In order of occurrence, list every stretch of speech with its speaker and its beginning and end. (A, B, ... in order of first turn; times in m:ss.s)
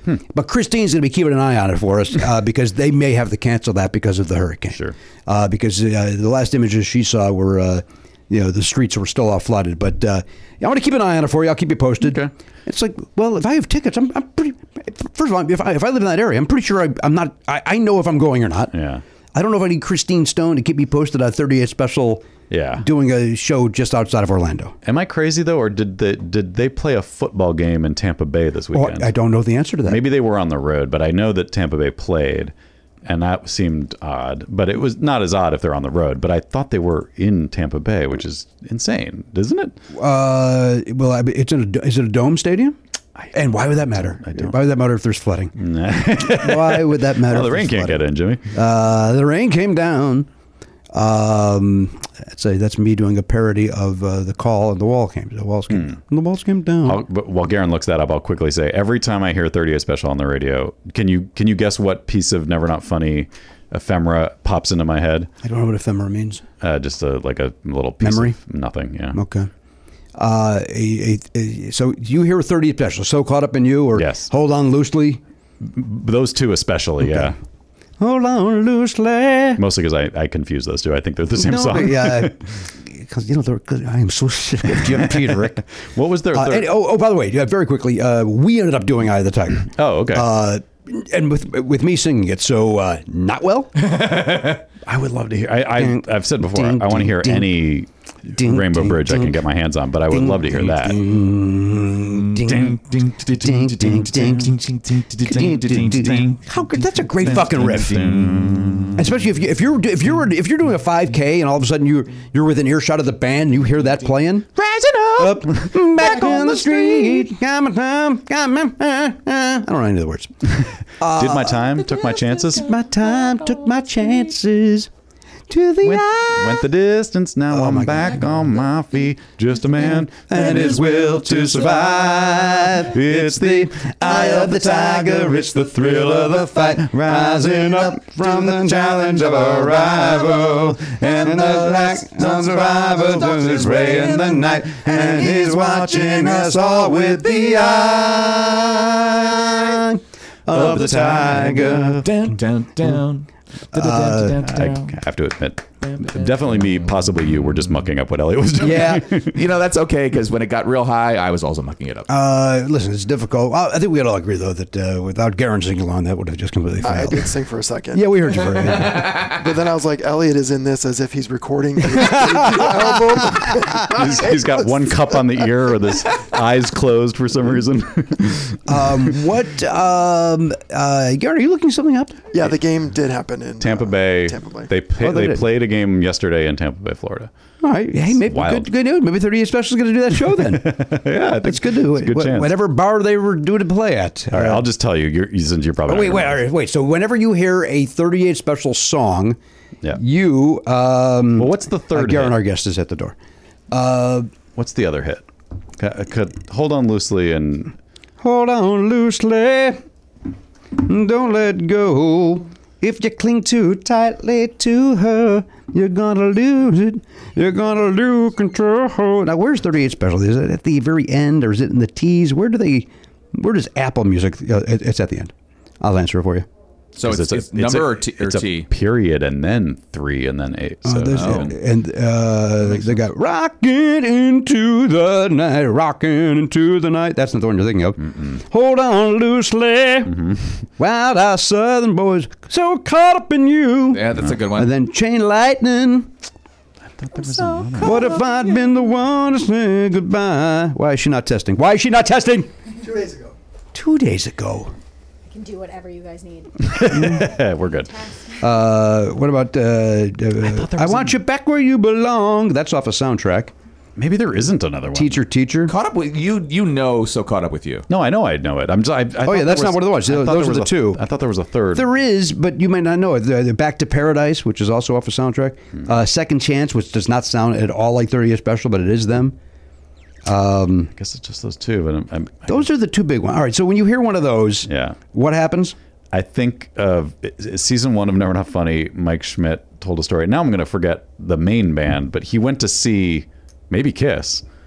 0:00.3-0:18.7 A
0:12.0-0:12.3 B
0:18.7-0:19.0 B
0:19.3-0:22.2 A
0:22.5-0:22.9 B
0:22.8-0:24.8 A
0:24.8-0:29.1 B
0:28.7-0:30.0 A
0:29.8-0:32.5 B
0:33.0-0:39.8 B
0:39.9-0:42.8 A
0:43.2-0:44.6 B
0:43.3-0:45.5 A
0:45.6-0:48.5 B
0:46.2-0:50.3 A
0:50.9-0:57.0 A
0:55.7-0:56.0 B
0:56.8-1:05.3 B
1:05.4-1:06.4 A
1:06.6-1:09.2 B
1:08.0-1:08.4 A
1:09.1-1:09.5 A
1:10.2-1:15.2 A
1:14.0-1:14.3 B
1:15.6-1:17.4 B
1:18.0-1:19.6 A
1:19.6-1:22.4 B
1:21.4-1:25.6 A
1:24.8-1:26.7 B
1:26.3-1:33.9 A
1:29.7-1:30.3 B
1:34.0-1:34.3 C
1:34.8-1:41.0 B
1:35.8-1:37.6 A
1:38.3-1:39.4 A
1:40.1-1:48.4 A
1:42.1-1:46.4 C
1:47.2-1:49.1 B
1:48.9-2:00.3 A
2:00.6-2:02.8 B
2:01.0-2:04.9 A
2:05.5-2:06.6 A
2:05.8-2:26.4 B
2:07.5-2:08.2 A
2:09.9-2:32.0 A
2:30.5-2:31.8 B
2:32.0-2:35.0 C
2:33.8-2:34.4 A
2:34.4-2:39.3 B
2:35.8-2:37.2 C
2:38.6-2:39.1 A
2:38.7-2:42.1 C
2:42.1-2:47.4 A
2:46.8-2:48.8 D
2:47.9-2:49.4 A
2:49.3-2:54.7 D
2:52.0-2:53.6 A
2:53.8-2:58.9 B
2:58.7-3:02.3 A
3:02.3-3:04.7 D
3:03.6-3:07.3 B
3:05.0-3:05.4 A
3:07.6-3:14.6 A
3:08.2-3:08.7 B
3:10.3-3:12.6 B
3:14.3-3:16.5 B
3:15.9-3:19.4 A
3:20.0-3:23.2 A
3:21.4-3:22.4 B
3:23.7-3:24.3 A
3:24.6-3:25.3 B
3:25.8-3:27.8 B
3:28.2-3:29.8 A
3:30.8-3:46.5 A
3:46.9-3:48.7 C
3:47.0-3:51.6 B
3:50.8-4:00.2 A
3:51.1-3:51.5 C
4:00.1-4:00.4 B
4:00.8-4:06.1 A
4:03.9-4:04.7 C
4:06.9-4:08.1 B
4:07.3-4:07.7 E
4:07.8-4:12.5 A
4:12.9-4:13.3 D
4:13.7-4:14.7 A
4:15.3-4:18.5 E
4:16.7-4:17.9 B
4:16.9-4:17.3 A
4:18.4-4:23.5 A
4:20.4-4:21.2 B
4:24.0-4:25.2 B
4:24.9-4:25.7 A
4:25.7-4:27.9 C
4:27.9-4:31.9 B
4:29.2-4:31.0 A
4:31.7-4:39.4 A
4:40.2-4:40.9 A
4:41.0-4:42.7 B
4:42.5-4:45.8 A
4:44.7-4:45.0 B
4:46.1-4:54.4 B